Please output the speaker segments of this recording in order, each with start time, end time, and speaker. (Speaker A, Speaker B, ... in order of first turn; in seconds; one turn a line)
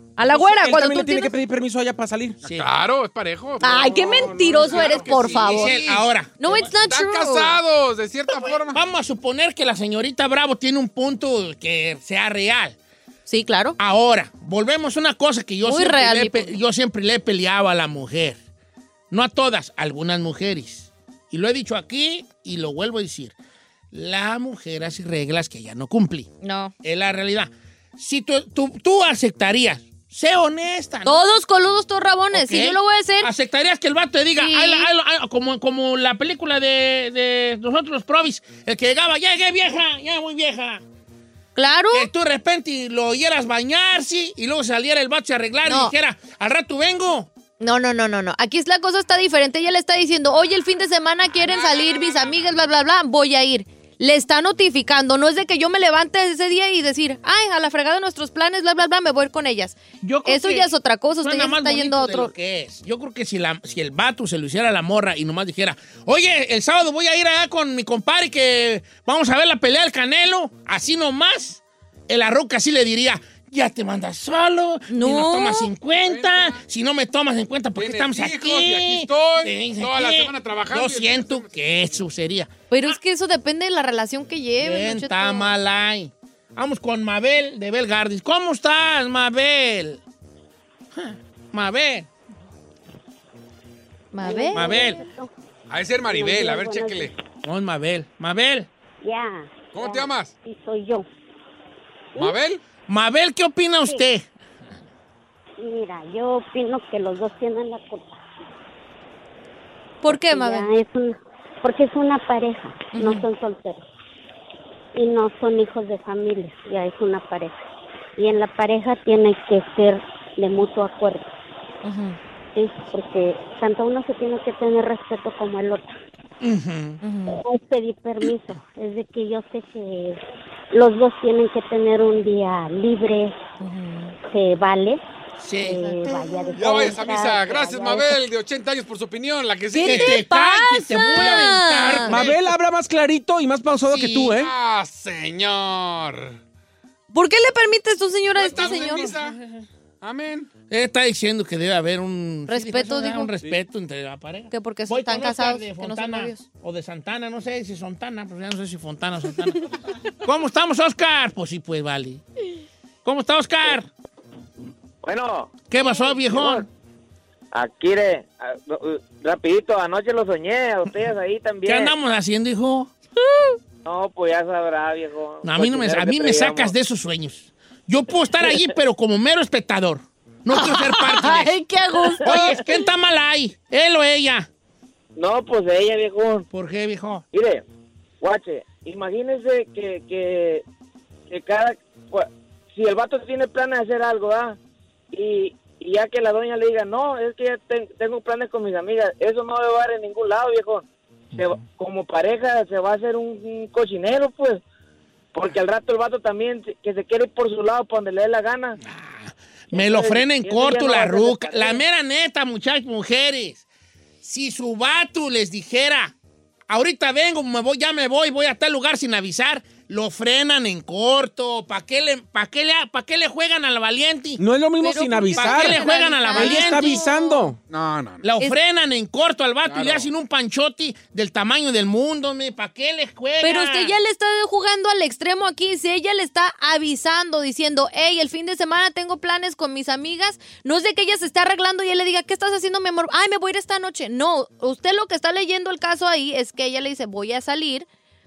Speaker A: 0.2-1.3
Speaker B: 0.2-2.4
Speaker C: 2.4-6.1
Speaker A: 3.6-5.8
Speaker B: 3.7-5.0
Speaker D: 4.9-6.7
Speaker A: 6.4-7.6
Speaker C: 6.9-8.8
Speaker D: 8.3-12.8
Speaker A: 13.3-13.8
Speaker D: 13.8-18.4
Speaker A: 15.6-16.6
Speaker D: 19.1-23.4
Speaker D: 23.9-26.3
Speaker A: 26.4-26.7
Speaker D: 26.8-31.2
Speaker A: 31.1-33.3
Speaker D: 32.3-40.8
Speaker A: 34.4-34.9
Speaker A: 41.6-42.1
Speaker D: 41.9-47.3
Speaker A: 45.6-45.9
Speaker A: 47.6-62.3
Speaker C: 51.4-52.4
Speaker D: 60.0-83.0
Speaker A: 74.9-75.7
Speaker C: 76.0-76.6
Speaker C: 77.8-81.6
Speaker A: 82.7-85.5
Speaker D: 84.6-90.0
Speaker D: 91.0-92.1
Speaker A: 94.1-95.0
Speaker E: 94.2-95.3
Speaker D: 94.5-95.0
Speaker C: 95.7-97.2
Speaker E: 96.0-97.1
Speaker D: 97.4-98.7
Speaker E: 99.0-101.1
Speaker C: 99.7-100.3
Speaker C: 102.2-102.6
Speaker D: 102.9-104.3
Speaker E: 105.6-108.2
Speaker A: 110.0-110.7
Speaker E: 110.1-113.8
Speaker A: 112.9-113.3
Speaker E: 115.0-117.6
Speaker E: 118.2-121.3
Speaker A: 121.8-122.2
Speaker E: 122.5-125.9
Speaker D: 126.4-127.0
Speaker A: 127.0-127.4
Speaker E: 127.4-130.2
Speaker E: 130.7-133.4
Speaker A: 133.6-134.2
Speaker E: 134.3-135.0
Speaker D: 135.4-136.3
Speaker E: 135.6-138.2
Speaker A: 135.7-136.6
Speaker C: 136.6-140.2
Speaker A: 139.7-142.1
Speaker D: 139.8-142.3
Speaker C: 141.2-142.4
Speaker B: 142.1-144.5
Speaker D: 143.9-144.4
Speaker C: 144.4-146.4
Speaker A: 147.1-149.1
Speaker C: 148.4-149.4
Speaker D: 148.5-149.7
Speaker C: 150.0-150.5
Speaker D: 150.7-162.2
Speaker A: 152.5-153.3
Speaker A: 154.5-156.4
Speaker D: 163.1-163.9
Speaker F: 165.0-165.5
Speaker D: 165.7-166.7
Speaker F: 166.3-166.7
Speaker F: 167.5-171.9
Speaker D: 171.7-172.9
Speaker A: 173.2-173.6
Speaker F: 173.8-176.7
Speaker D: 175.4-181.6
Speaker A: 180.5-182.7
Speaker D: 182.2-184.5
Speaker F: 185.2-186.5
Speaker D: 186.5-187.3
Speaker F: 187.3-187.6
Speaker F: 188.2-190.6
Speaker F: 191.3-194.6
Speaker F: 195.1-204.6
Speaker D: 201.4-201.6
Speaker F: 205.3-208.8
Speaker D: 208.8-213.6
Speaker F: 209.7-211.8
Speaker D: 214.2-216.1
Speaker D: 216.7-224.4
Speaker B: 224.4-227.6
Speaker A: 224.8-227.5
Speaker D: 225.4-227.1
Speaker C: 227.7-228.3
Speaker D: 228.2-233.9
Speaker C: 229.7-230.1
Speaker A: 233.4-247.9